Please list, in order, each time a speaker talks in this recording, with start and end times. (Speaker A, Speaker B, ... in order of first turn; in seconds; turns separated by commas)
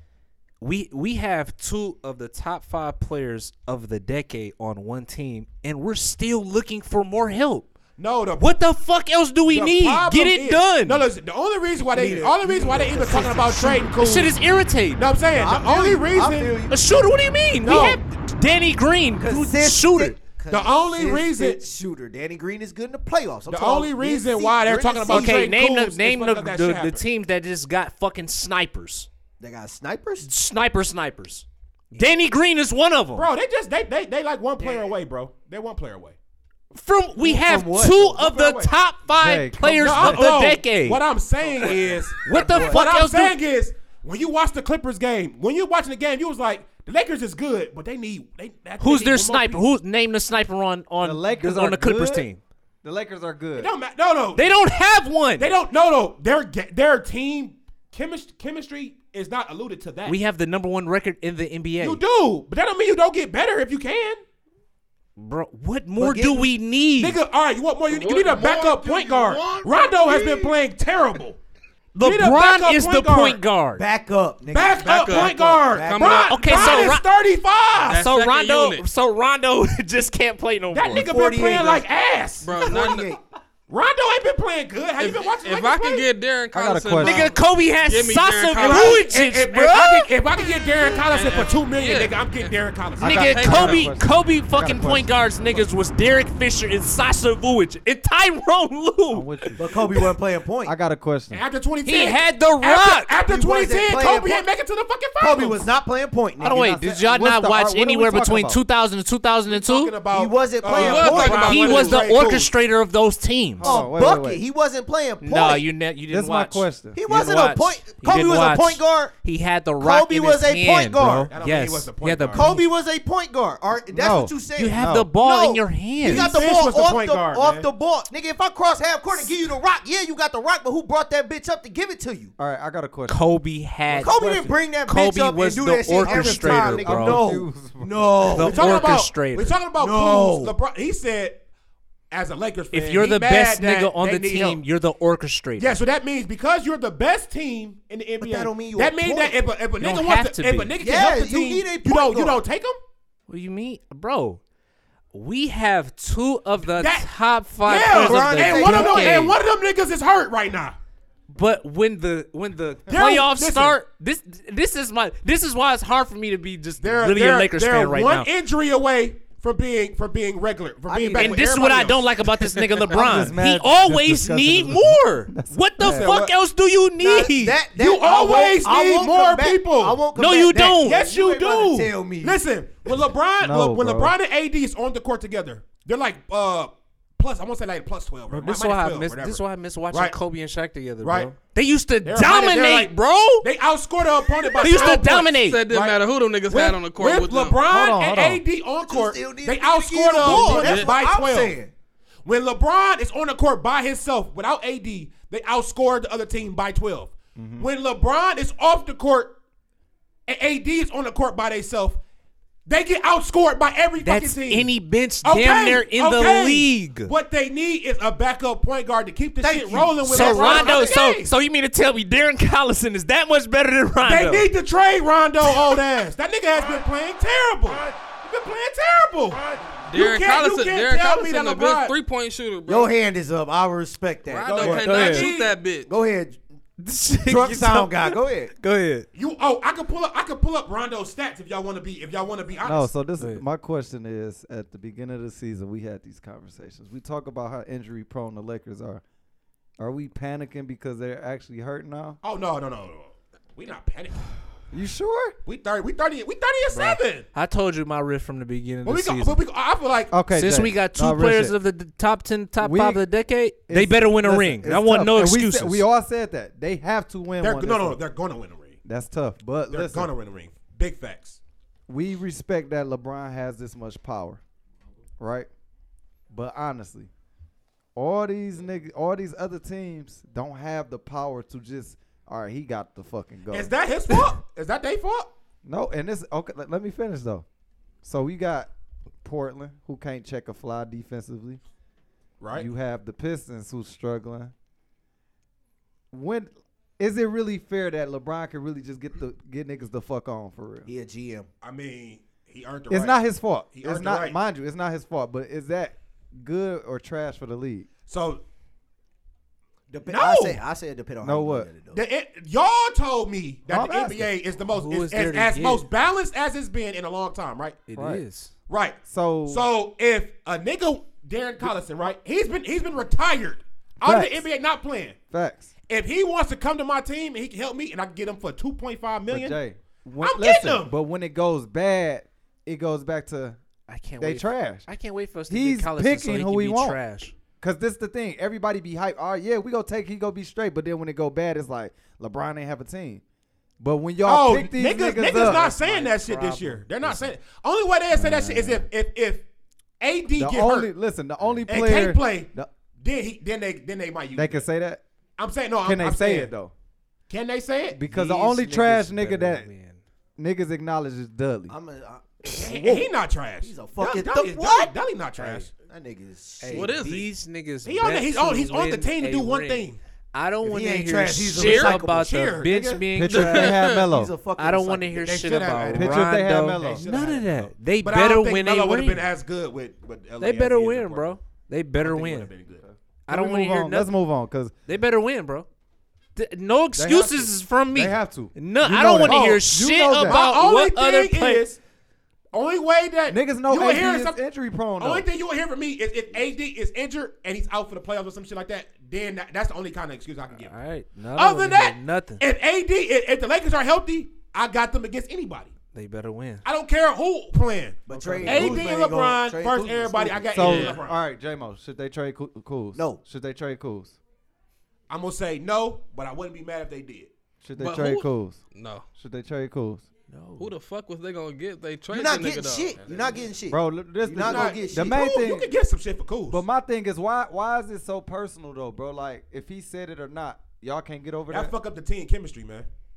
Speaker A: 0.6-7.7, Speaker B: 8.0-8.6, Speaker A: 8.4-11.1, Speaker B: 9.5-14.4, Speaker C: 11.9-13.9, Speaker A: 13.8-15.1, Speaker B: 15.0-16.6, Speaker C: 15.3-16.8, Speaker A: 16.7-20.2, Speaker B: 17.6-18.0, Speaker C: 19.2-25.5, Speaker B: 20.5-21.6, Speaker B: 23.5-27.0, Speaker A: 25.1-29.1, Speaker C: 29.4-30.3, Speaker A: 30.2-33.3, Speaker B: 33.1-36.2, Speaker A: 36.7-41.0, Speaker C: 37.2-38.7, Speaker B: 38.1-38.5, Speaker D: 39.1-40.3, Speaker B: 39.8-49.6, Speaker C: 41.4-42.9, Speaker A: 41.6-43.4, Speaker A: 48.8-52.4, Speaker D: 51.0-52.3, Speaker D: 52.8-53.7, Speaker B: 53.6-54.5, Speaker A: 54.4-55.5, Speaker B: 55.4-60.2, Speaker A: 60.1-62.0, Speaker B: 61.8-64.2, Speaker A: 65.2-67.2, Speaker C: 66.0-66.5, Speaker B: 67.0-71.4, Speaker E: 68.1-68.4, Speaker A: 72.0-73.8, Speaker B: 72.0-73.4, Speaker C: 73.8-76.9, Speaker B: 74.5-78.0, Speaker E: 74.8-76.9, Speaker A: 76.3-77.1, Speaker E: 77.8-78.8, Speaker A: 77.9-81.1, Speaker B: 80.7-82.8, Speaker C: 80.9-81.8, Speaker E: 82.4-83.1, Speaker C: 82.6-83.2, Speaker B: 83.7-86.0, Speaker E: 85.0-89.0, Speaker D: 86.5-87.3, Speaker A: 87.0-90.1, Speaker B: 88.6-93.3, Speaker E: 90.9-92.5, Speaker D: 93.0-95.7, Speaker A: 93.0-100.0, Speaker E: 93.1-93.9, Speaker D: 99.1-99.8, Speaker C: 99.6-100.8, Speaker D: 100.6-101.4, Speaker B: 101.3-105.7, Speaker A: 101.8-103.1, Speaker C: 103.3-104.5, Speaker C: 105.2-106.7, Speaker A: 106.4-110.0, Speaker D: 106.4-108.6, Speaker B: 109.5-112.5, Speaker C: 110.1-111.5, Speaker E: 110.7-112.2, Speaker A: 111.2-113.7, Speaker D: 113.6-114.4, Speaker C: 113.6-115.7, Speaker A: 115.2-122.6, Speaker D: 116.1-117.0, Speaker C: 116.9-119.1, Speaker C: 119.8-121.3, Speaker D: 121.0-121.3, Speaker B: 121.3-122.6, Speaker C: 122.3-132.3, Speaker D: 123.9-125.1, Speaker A: 124.5-126.4, Speaker B: 126.0-127.7, Speaker D: 132.4-133.2, Speaker A: 133.1-137.2, Speaker C: 134.0-138.8, Speaker D: 136.0-138.4, Speaker A: 138.3-139.6, Speaker B: 138.4-141.4, Speaker C: 139.8-140.6, Speaker B: 142.1-144.6, Speaker A: 142.7-145.8, Speaker B: 145.6-152.8, Speaker C: 148.2-149.4, Speaker A: 149.8-150.7, Speaker C: 150.8-152.4, Speaker A: 153.3-154.4, Speaker A: 155.1-159.4, Speaker B: 156.7-160.8, Speaker C: 157.9-159.4, Speaker A: 161.3-168.3, Speaker B: 162.9-163.8, Speaker B: 166.8-172.1, Speaker C: 170.9-171.5, Speaker A: 171.1-177.6, Speaker D: 172.9-176.3, Speaker C: 175.9-176.3, Speaker C: 177.0-182.4, Speaker B: 177.7-180.0, Speaker A: 180.2-181.0, Speaker B: 180.8-190.2, Speaker D: 183.4-184.1, Speaker A: 188.3-193.5, Speaker B: 191.0-191.3, Speaker B: 192.0-201.6, Speaker A: 194.6-195.6, Speaker E: 194.7-197.6, Speaker D: 197.7-198.4, Speaker C: 198.9-201.7, Speaker E: 200.2-200.9, Speaker B: 202.2-209.4, Speaker D: 207.4-207.7, Speaker B: 210.3-212.0, Speaker B: 212.7-214.7, Speaker A: 214.0-217.1, Speaker B: 215.2-221.3, Speaker C: 219.4-221.0, Speaker A: 220.0-224.5, Speaker B: 224.0-231.9, Speaker E: 229.9-232.9, Speaker C: 232.7-235.3, Speaker E: 234.3-235.9, Speaker B: 234.5-235.5, Speaker A: 234.8-235.3, Speaker C: 235.9-236.4, Speaker A: 236.8-239.1, Speaker C: 237.3-238.5, Speaker B: 239.2-242.9, Speaker D: 242.6-249.0, Speaker D: 249.8-252.2, Speaker B: 252.2-254.3, Speaker D: 254.7-255.4, Speaker B: 255.4-257.3, Speaker A: 256.8-259.4, Speaker B: 258.9-260.1, Speaker D: 260.1-261.6, Speaker A: 260.3-265.8, Speaker D: 262.6-263.0, Speaker D: 263.7-268.0, Speaker B: 267.4-268.8, Speaker D: 268.9-270.1, Speaker B: 269.7-271.4, Speaker D: 271.9-274.4, Speaker D: 275.2-275.5, Speaker D: 276.3-277.1, Speaker D: 277.9-283.7, Speaker B: 283.5-285.3, Speaker D: 285.6-287.4, Speaker D: 288.0-288.7, Speaker D: 289.2-291.6, Speaker B: 292.4-292.7, Speaker D: 292.6-294.5, Speaker D: 296.1-300.9, Speaker C: 300.9-301.5, Speaker B: 301.6-303.2, Speaker D: 302.9-307.9, Speaker B: 303.7-304.4, Speaker B: 308.1-308.4, Speaker C: 310.0-312.0, Speaker B: 310.0-310.6, Speaker D: 311.2-311.7, Speaker B: 311.9-317.9, Speaker D: 313.7-314.3, Speaker A: 314.7-315.9, Speaker A: 317.9-318.5, Speaker D: 317.9-318.2, Speaker B: 318.7-325.2, Speaker D: 319.1-319.7, Speaker D: 324.0-324.5, Speaker D: 325.3-325.7, Speaker B: 325.9-329.6, Speaker D: 329.3-333.6, Speaker B: 330.2-330.9, Speaker A: 333.9-337.4, Speaker D: 334.2-334.9, Speaker D: 335.5-337.0, Speaker D: 337.6-343.2, Speaker D: 343.8-345.8, Speaker B: 344.2-349.5, Speaker A: 345.4-347.3, Speaker D: 348.1-348.9, Speaker B: 350.0-350.9, Speaker D: 350.4-352.7, Speaker B: 351.7-354.6, Speaker D: 354.3-355.0, Speaker B: 355.4-356.5, Speaker D: 355.8-356.7, Speaker B: 357.3-358.0, Speaker D: 357.9-359.7, Speaker A: 358.1-360.0, Speaker D: 360.4-361.8, Speaker C: 361.7-363.1, Speaker B: 362.5-365.7, Speaker C: 363.6-367.0, Speaker A: 366.6-373.7, Speaker E: 366.7-367.3, Speaker B: 367.8-370.0, Speaker C: 370.6-372.2, Speaker E: 371.6-371.9, Speaker B: 371.6-373.1, Speaker D: 373.1-374.3, Speaker E: 373.2-374.1, Speaker C: 373.9-375.5, Speaker A: 374.6-379.3, Speaker B: 375.2-381.4, Speaker D: 375.9-377.1, Speaker A: 380.4-382.5, Speaker B: 382.0-382.9, Speaker D: 382.9-384.7, Speaker A: 383.3-384.1, Speaker A: 384.9-385.7, Speaker A: 386.4-391.7, Speaker D: 387.0-390.4, Speaker B: 389.3-389.7, Speaker B: 390.2-391.8, Speaker B: 392.5-394.4, Speaker D: 393.3-395.3, Speaker B: 395.0-400.8, Speaker A: 400.6-402.4, Speaker B: 401.4-405.7, Speaker A: 405.9-406.6, Speaker B: 406.6-411.2, Speaker C: 408.1-410.5, Speaker D: 408.1-409.1, Speaker D: 410.5-414.2, Speaker E: 410.6-411.0, Speaker C: 412.9-413.2, Speaker B: 415.1-417.3, Speaker D: 417.6-418.6, Speaker E: 417.8-419.1, Speaker D: 419.2-420.1, Speaker A: 420.3-420.7, Speaker E: 420.6-423.0, Speaker C: 422.1-425.2, Speaker B: 423.0-423.4, Speaker D: 423.7-425.7, Speaker B: 424.4-426.6, Speaker D: 426.5-431.7, Speaker B: 431.5-432.9